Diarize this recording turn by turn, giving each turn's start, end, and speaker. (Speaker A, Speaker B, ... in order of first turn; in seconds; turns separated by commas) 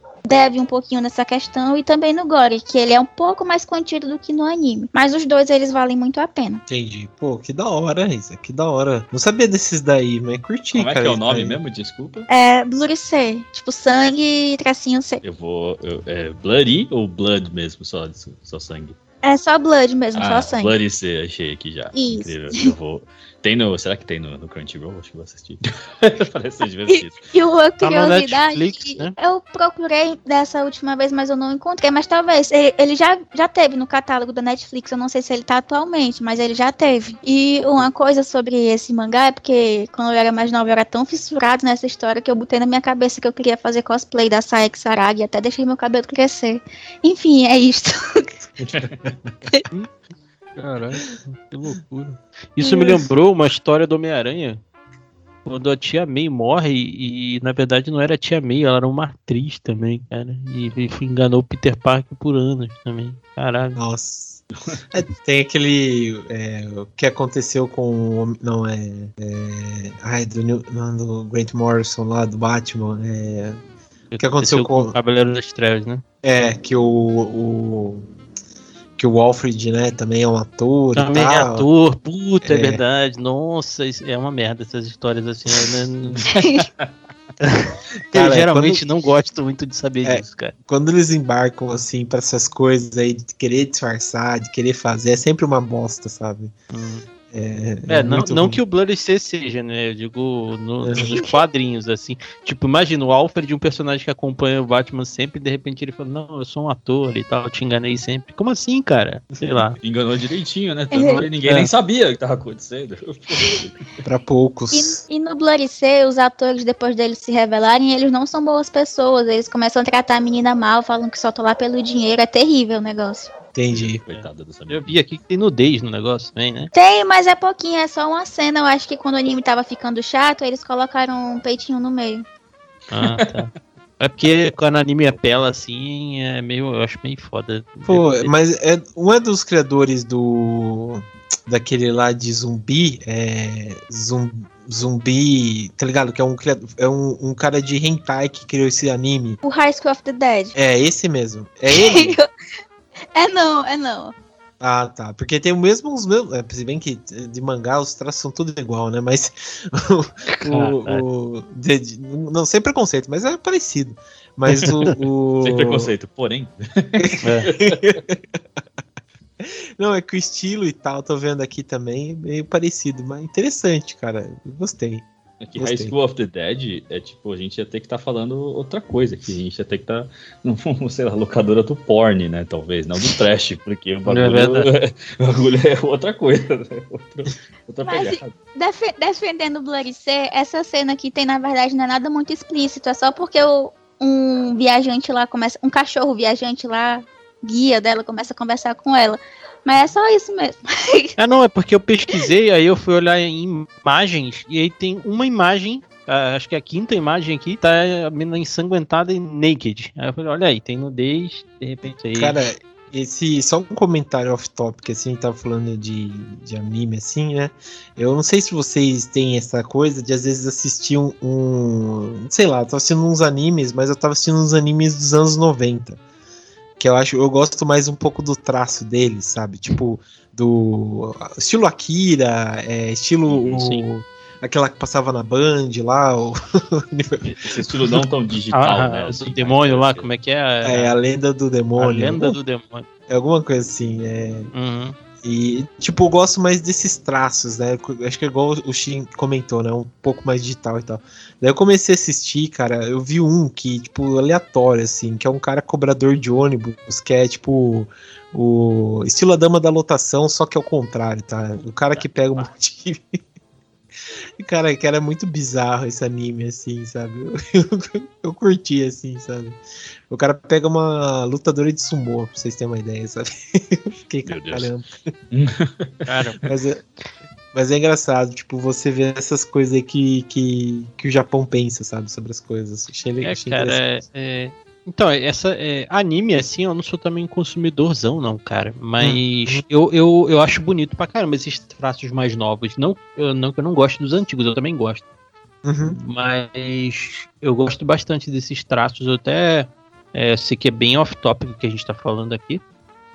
Speaker A: 0.2-6.6, Speaker B: 6.7-11.6, Speaker C: 10.7-12.3, Speaker A: 12.3-15.2, Speaker C: 15.2-19.0, Speaker A: 19.2-20.8, Speaker C: 20.1-27.3, Speaker A: 21.9-22.7, Speaker A: 26.9-48.3, Speaker D: 27.8-29.1, Speaker C: 48.6-49.1, Speaker D: 50.6-54.6, Speaker A: 52.6-53.0, Speaker D: 55.5-63.8, Speaker B: 63.7-73.6, Speaker D: 74.1-76.0, Speaker B: 74.2-74.9, Speaker B: 76.2-78.1, Speaker B: 79.0-81.7, Speaker D: 80.9-86.3, Speaker B: 82.4-82.8, Speaker A: 86.3-86.7, Speaker D: 87.4-90.5, Speaker B: 88.1-88.8, Speaker B: 90.0-96.5, Speaker D: 96.7-97.0, Speaker B: 97.3-98.6, Speaker D: 97.9-109.8, Speaker B: 100.8-101.2, Speaker A: 101.0-101.4, Speaker C: 109.8-113.9, Speaker A: 110.9-111.2, Speaker D: 111.1-111.7, Speaker B: 114.0-115.0, Speaker A: 114.7-123.3, Speaker B: 123.5-124.0, Speaker C: 123.7-125.0, Speaker D: 124.1-126.7, Speaker A: 126.7-132.2, Speaker D: 132.9-138.3, Speaker B: 137.9-149.4, Speaker A: 149.4-150.5, Speaker B: 150.5-152.2, Speaker A: 151.7-152.3, Speaker A: 153.1-154.1, Speaker B: 154.6-165.9, Speaker D: 160.3-161.0, Speaker D: 164.5-164.9, Speaker C: 165.4-167.9, Speaker B: 167.0-168.2, Speaker D: 167.2-167.5, Speaker B: 169.4-175.0, Speaker C: 175.4-188.3, Speaker B: 175.6-175.9, Speaker D: 184.1-184.7, Speaker A: 187.8-201.2, Speaker D: 201.2-212.3, Speaker B: 212.1-226.0, Speaker B: 226.8-237.4, Speaker C: 233.3-233.6, Speaker D: 233.5-233.8, Speaker C: 237.2-240.1, Speaker D: 238.5-240.9, Speaker B: 240.6-242.4, Speaker D: 241.8-242.9, Speaker B: 243.1-244.5, Speaker D: 244.5-244.9, Speaker B: 245.2-263.0, Speaker D: 261.9-262.5, Speaker B: 264.4-269.6, Speaker B: 270.1-274.9, Speaker C: 274.2-274.7, Speaker C: 275.3-276.0, Speaker D: 276.1-276.5, Speaker B: 276.4-276.8, Speaker B: 277.5-283.8, Speaker D: 283.2-295.0, Speaker B: 289.0-289.6, Speaker B: 295.6-296.0, Speaker D: 295.8-302.6